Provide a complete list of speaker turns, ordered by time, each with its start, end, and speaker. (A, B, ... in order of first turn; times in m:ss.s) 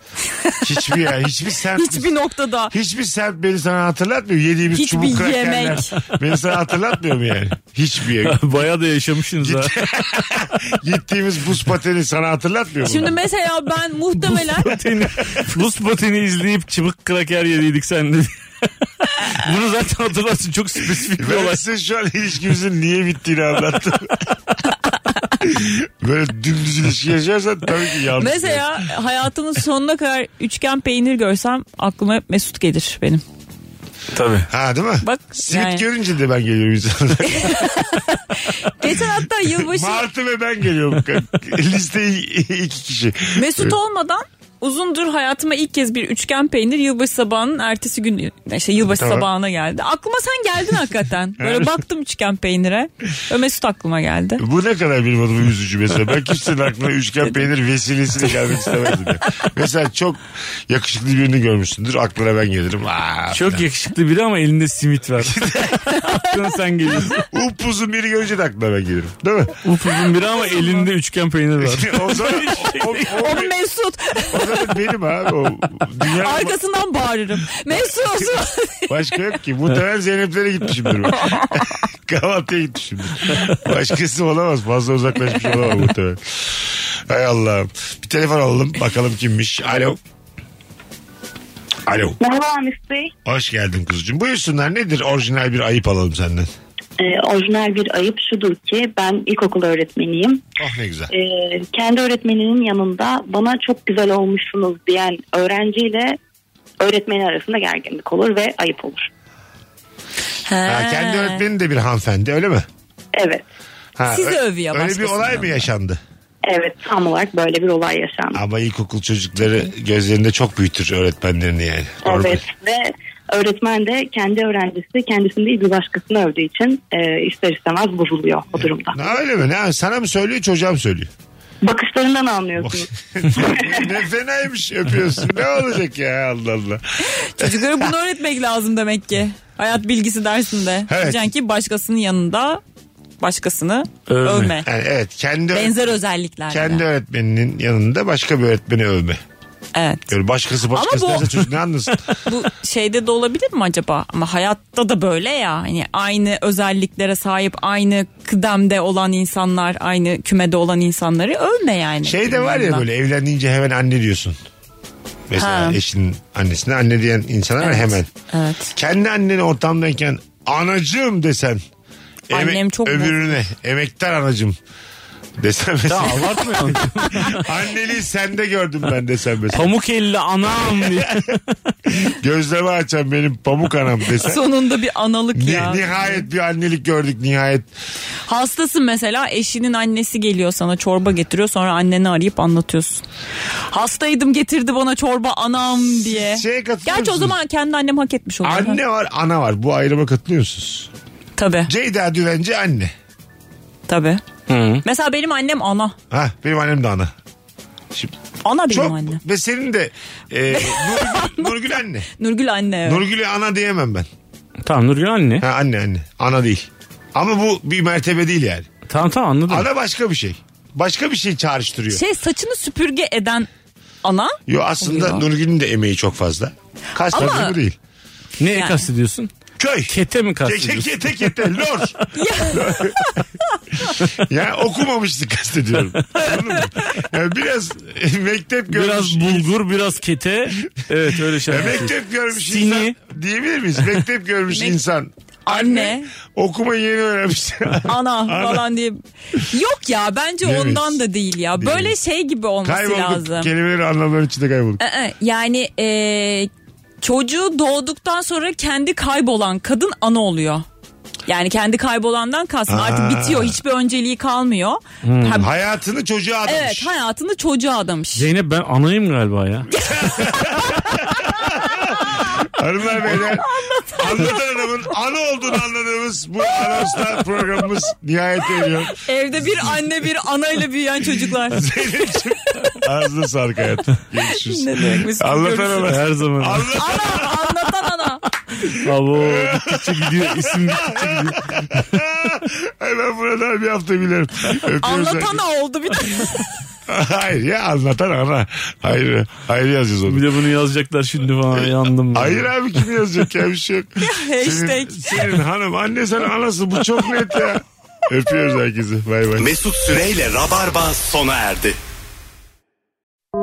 0:00.4-0:01.0 A
0:00.6-0:02.1 B
0:01.7-0:02.7 A
0:02.7-0:08.4 B
0:04.7-0:06.0 A
0:08.2-0:10.3 C
0:09.4-0:13.2 B
0:12.8-0:14.8 A
0:14.2-0:18.3 C
0:19.0-0:21.6 C
0:21.0-0:24.3 B
0:25.4-0:28.7 B
0:28.2-0:33.2 A
0:34.1-0:34.5 C
0:34.5-0:37.6 B
0:35.0-0:35.8 A
0:37.2-0:40.1 A
0:39.5-0:43.8 B
0:43.3-0:54.4 A
0:48.8-0:49.3 B
0:51.4-0:51.8 B
0:54.4-1:03.7 B
1:03.3-1:07.2 C
1:05.2-1:05.8 B
1:05.9-1:06.3 A
1:07.1-1:09.6 B
1:09.6-1:13.2 C
1:10.0-1:10.9 A
1:11.6-1:13.5 B
1:13.1-1:14.7 A
1:14.3-1:16.6 B
1:16.1-1:19.1 A
1:18.9-1:30.0 B
1:21.2-1:21.7 A
1:31.8-1:32.2 B
1:32.2-1:33.1 D
1:33.2-1:36.5 B
1:37.0-1:40.4 D
1:40.6-1:41.1 B
1:41.1-1:46.2 D
1:46.8-1:49.1 D
1:50.4-1:51.4 A
1:50.6-1:52.7 B
1:53.1-1:53.4 D
1:54.0-1:56.0 B
1:54.1-1:55.7 A
1:56.4-1:58.4 D
1:58.3-2:02.4 B
2:02.0-2:09.0 D
2:08.6-2:11.1 B
2:11.6-2:13.9 D
2:12.6-2:17.9 B
2:17.1-2:22.6 A
2:20.9-2:21.3 B
2:23.2-2:24.7 A
2:24.1-2:24.5 C
2:24.6-2:25.8 B
2:25.5-2:26.8 A
2:26.5-2:29.2 B
2:29.7-2:30.1 A
2:30.1-2:32.1 B
2:30.7-2:31.4 A
2:32.2-2:42.9 A
2:42.0-2:44.4 B
2:45.3-2:48.1 B
2:45.4-2:45.8 A
2:47.6-2:48.7 A
2:48.7-2:51.6 B
2:52.3-2:54.6 B
2:52.3-2:53.4 A
2:55.4-2:59.7 B
2:55.9-2:57.5 C
2:59.5-3:01.7 C
3:00.7-3:01.2 B
3:01.8-3:04.4 B
3:04.2-3:06.2 A
3:05.3-3:07.7 B
3:08.3-3:13.0 A
3:13.7-3:18.8 A
3:16.1-3:17.4 B
3:18.4-3:20.9 B
3:21.4-3:21.7 A
3:21.6-3:22.9 B
3:23.9-3:24.2 A
3:24.5-3:24.8 C
3:24.8-3:26.0 A
3:26.1-3:27.1 B
3:28.4-3:29.2 A
3:28.7-3:32.1 B
3:30.5-3:33.0 A
3:32.8-3:34.1 B
3:34.6-3:35.4 C
3:35.4-3:38.7 B
3:38.9-3:39.7 C
3:39.5-3:42.0 B
3:41.9-3:43.5 A
3:44.0-3:45.3 A
3:44.5-3:47.8 B
3:47.1-3:47.6 A
3:48.4-3:49.3 C
3:48.5-3:48.8 A
3:49.6-3:53.2 B
3:49.9-3:51.4 C
3:52.1-3:53.2 A
3:53.9-3:59.6 B
3:56.2-3:56.6 A
3:58.7-4:03.0 C
4:01.4-4:08.6 B
4:04.5-4:04.8 A
4:05.4-4:06.1 A
4:07.8-4:13.5 A
4:10.4-4:11.0 B
4:11.6-4:11.9 B
4:12.6-4:14.8 B
4:14.8-4:16.5 A
4:17.0-4:20.6 A
4:21.3-4:25.5 A
4:22.7-4:23.6 B
4:25.0-4:25.4 C
4:25.3-4:26.9 B
4:26.4-4:28.3 A
4:28.2-4:29.7 C
4:29.7-4:39.9 B
4:29.9-4:32.4 A
4:33.0-4:34.8 A
4:38.9-4:42.8 A
4:41.4-4:47.6 B
4:44.3-4:46.0 A
4:45.8-4:46.8 C
4:46.7-4:48.2 A
4:48.6-4:55.4 B
4:48.6-4:51.5 C
4:54.8-4:56.6 A
4:56.9-5:00.3 B
5:00.0-5:02.5 C
5:01.5-5:09.5 B
5:04.0-5:05.2 A
5:09.4-5:11.8 E